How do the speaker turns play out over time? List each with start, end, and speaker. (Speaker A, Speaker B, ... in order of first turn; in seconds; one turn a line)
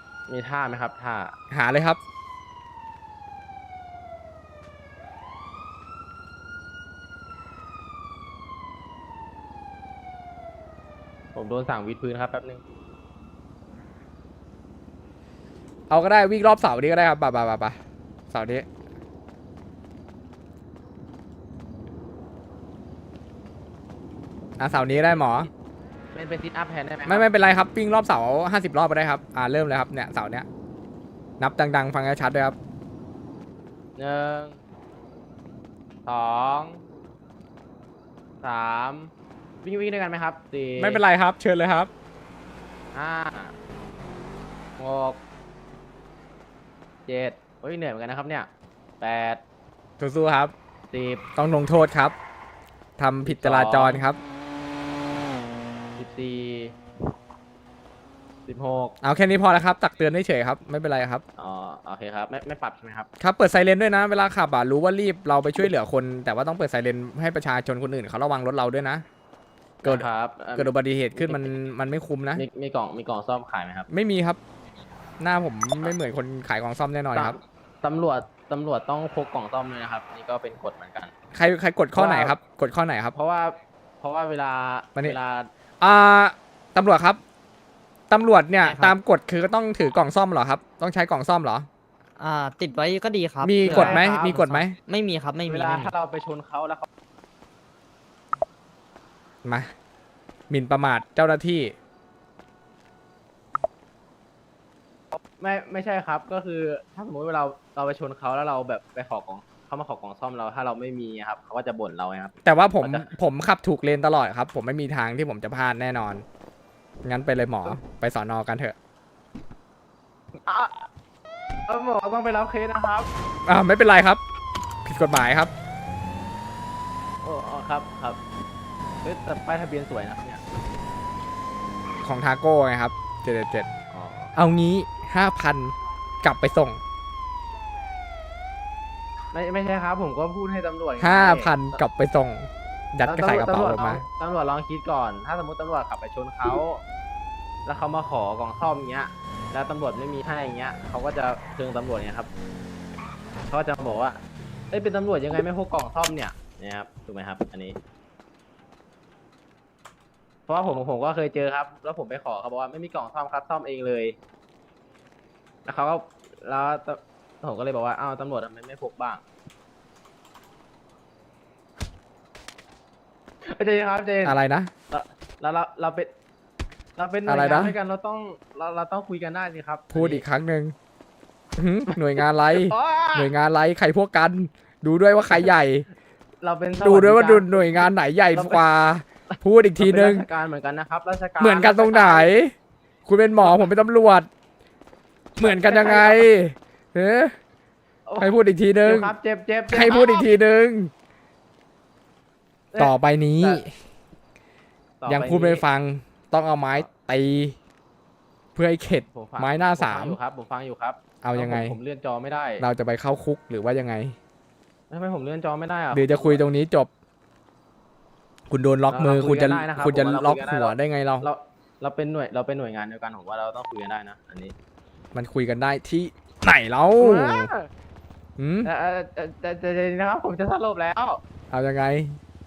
Speaker A: 0.3-1.3
Speaker B: 1.5-2.0
Speaker A: 11.3-12.6
Speaker B: 15.9-17.8
Speaker B: 18.3-18.6
Speaker B: 24.6-25.5
Speaker A: 24.9-25.2
Speaker A: 26.1-27.3
Speaker B: 27.1-30.4
Speaker B: 31.4-32.5
Speaker A: 34.0-34.6
Speaker A: 36.0-36.8
Speaker A: 38.4-39.1
Speaker A: 39.6-41.0
Speaker B: 40.8-41.9
Speaker A: 42.9-43.5
Speaker A: 44.8-45.2
Speaker A: 47.0-48.5
Speaker A: 49.0-49.4
Speaker B: 50.0-50.5
Speaker A: 50.9-51.2
Speaker B: 51.4-52.1
Speaker B: 53.0-54.2
Speaker A: 53.2-54.0
Speaker A: 56.0-56.8
Speaker A: 58.5-59.0
Speaker B: 59.0-61.2
Speaker A: 61.4-63.1
Speaker B: 63.2-69.0
Speaker A: 69.8-71.5
Speaker B: 70.5-72.4
Speaker A: 72.3-73.9
Speaker B: 73.9-74.4
Speaker B: 75.2-77.4
Speaker A: 77.1-81.1
Speaker B: 81.3-83.1
Speaker A: 81.9-82.4
Speaker A: 83.1-85.5
Speaker B: 85.8-87.2
Speaker B: 88.1-91.7
Speaker C: 88.6-89.0
Speaker C: 92.2-95.9
Speaker B: 93.4-94.8
Speaker A: 93.6-94.6
Speaker A: 95.5-96.9
Speaker B: 99.4-99.7
Speaker B: 100.5-101.7
Speaker A: 105.1-113.1
Speaker B: 112.4-116.2
Speaker B: 117.0-118.7
Speaker A: 120.4-120.9
Speaker A: 121.7-123.1
Speaker B: 123.4-124.2
Speaker B: 124.8-125.5
Speaker A: 127.2-128.2
Speaker A: 129.0-130.4
Speaker B: 132.0-133.7
Speaker A: 133.9-134.3
Speaker B: 134.3-136.8
Speaker A: 139.3-141.8
Speaker B: 141.0-144.0
Speaker A: 143.0-146.8
Speaker A: 147.7-152.3
Speaker A: 153.5-154.2
Speaker A: 154.7-157.8
Speaker A: 160.5-164.2
Speaker A: 165.6-169.2
Speaker A: 173.4-174.4
Speaker B: 174.2-174.7
Speaker A: 174.9-176.1
Speaker A: 176.9-180.2
Speaker B: 177.3-177.8
Speaker B: 179.9-180.7
Speaker B: 181.6-185.9
Speaker A: 182.5-183.3
Speaker A: 186.4-188.6
Speaker B: 186.8-190.2
Speaker A: 189.8-192.4
Speaker B: 191.4-192.5
Speaker B: 193.1-194.3
Speaker B: 195.4-197.3
Speaker A: 195.4-196.3
Speaker A: 198.1-200.3
Speaker B: 198.2-199.1
Speaker B: 199.7-200.9
Speaker A: 202.7-203.6
Speaker B: 202.8-203.7
Speaker A: 205.0-205.6
Speaker B: 205.1-207.6
Speaker B: 208.5-210.2
Speaker A: 209.1-212.6
Speaker B: 211.2-211.8
Speaker B: 212.6-214.2
Speaker A: 214.9-216.4
Speaker B: 215.9-216.9
Speaker B: 218.5-221.3
Speaker A: 218.9-224.5
Speaker B: 225.1-227.5
Speaker A: 227.0-227.7
Speaker B: 228.4-228.7
Speaker A: 228.6-231.2
Speaker B: 231.5-232.2